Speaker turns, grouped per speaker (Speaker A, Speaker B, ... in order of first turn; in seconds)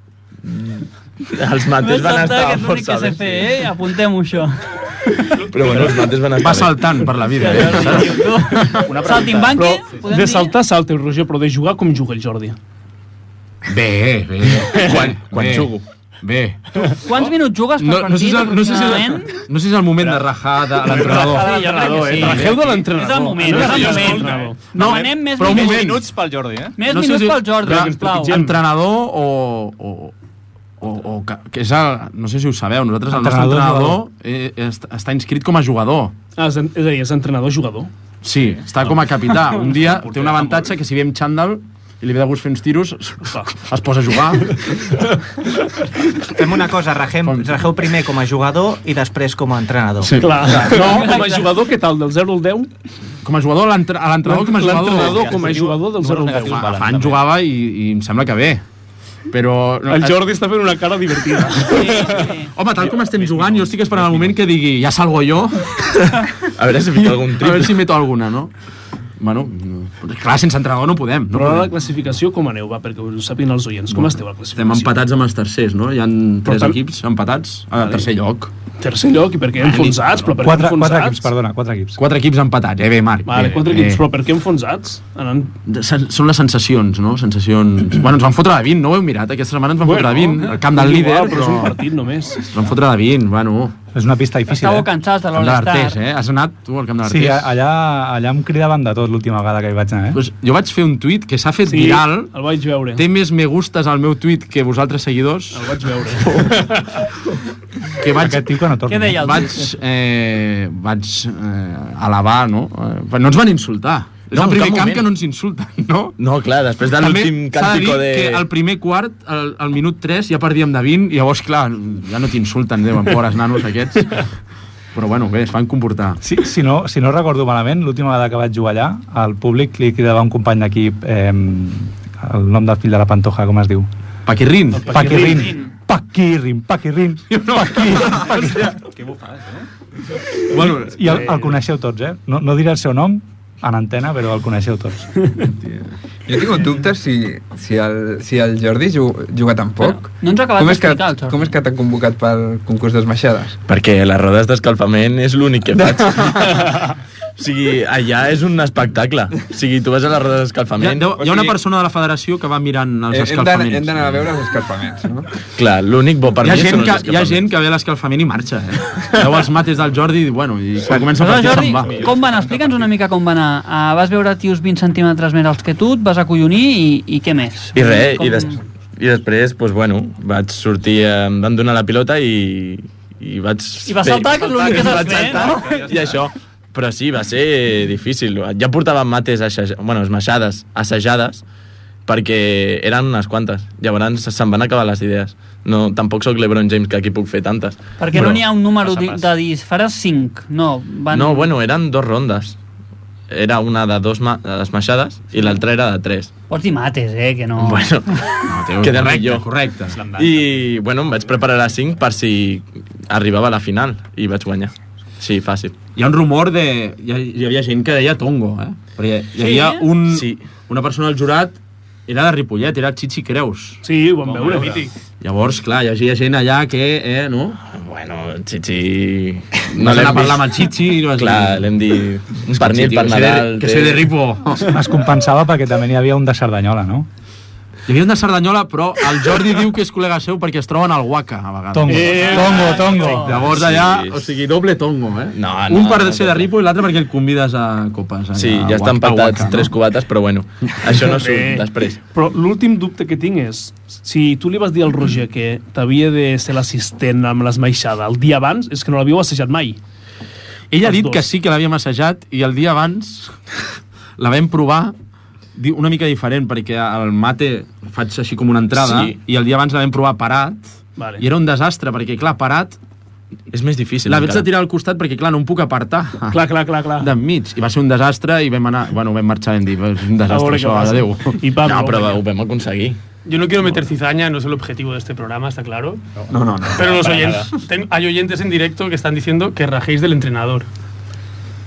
Speaker A: 0.4-3.7, 5.5-7.0, 14.8-15.8, 66.5-67.8, 114.3-115.0, 116.2-118.4, 153.7-156.8, 157.4-161.1, 165.6-167.4, 177.7-191.4, 192.1-198.4, 201.1-202.6, 203.3-206.3, 207.6-209.4, 210.1-215.8, 220.1-220.5, 227.7-230.6, 231.1-234.1, 243.4-244.2, 245.3-246.5, 248.3-252.0, 268.7-269.2, 273.5-274.5, 281.6-283.0
Speaker B: 1.8-5.4, 7.3-10.6, 17.0-19.4, 20.9-26.0, 26.8-28.4, 50.7-51.5, 61.7-62.5, 94.5-96.0, 108.9-109.7, 135.3-135.7, 149.8-151.5, 171.1-178.6, 183.8-185.8, 198.0-201.5, 206.5-208.0, 219.3-219.9, 242.2-243.5
Speaker C: 6.4-8.9, 13.7-16.9, 17.8-22.9, 24.7-26.1, 26.8-30.1, 30.8-36.1, 38.2-44.6, 47.2-47.6, 50.0-51.1, 53.2-55.6, 56.3-58.6, 59.3-60.3, 62.5-65.9, 67.3-68.5, 69.2-71.7, 73.9-78.5, 79.6-80.2, 82.0-84.0, 85.7-91.8, 92.5-93.7, 95.3-97.5, 100.1-102.3, 103.0-106.5, 108.0-108.5, 109.1-116.2, 117.0-124.2, 124.9-126.2, 134.2-135.2, 137.3-138.8, 140.5-141.3, 145.6-145.9, 160.8-164.3, 166.4-172.1, 208.4-210.0, 215.9-221.6, 222.1-223.8, 225.2-227.6, 229.7-231.7, 232.5-234.8, 237.9-249.7, 260.7-263.3, 264.2-264.9, 265.6-270.6, 271.2-272.8, 274.1-276.4, 277.0-281.4
Speaker D: 8.8-12.6, 14.7-15.0, 20.8-24.6, 27.6-28.6, 36.4-37.9, 39.3-40.7, 43.2-43.5, 50.2-52.7, 54.2-56.7, 59.9-62.3, 71.3-74.9, 76.4-76.8, 78.8-81.3, 83.2-85.5, 89.8-92.5, 101.7-103.0, 105.5-107.0, 134.7-135.6, 141.1-141.5, 223.8-224.9, 241.9-243.2, 251.1-259.8, 260.8-261.3, 271.0-271.2, 276.3-277.1, 280.3-282.2
Speaker E: 23.6-26.8, 54.8-57.2, 63.2-64.3, 138.7-139.7, 171.4-172.9, 184.5-186.2, 198.2-199.3, 209.9-210.7, 224.2-224.9, 286.1-287.5
Speaker F: 33.1-34.0, 80.4-82.0, 93.9-94.9, 97.0-100.2, 108.1-109.2, 126.2-133.9, 134.9-138.6, 140.6-145.3, 234.7-237.1, 241.7-243.4
Speaker G: 46.3-50.2
Speaker H: 146.3-153.6, 161.2-161.6, 163.1-165.3, 286.3-287.1
Speaker I: 283.2-286.0, 286.7-290.7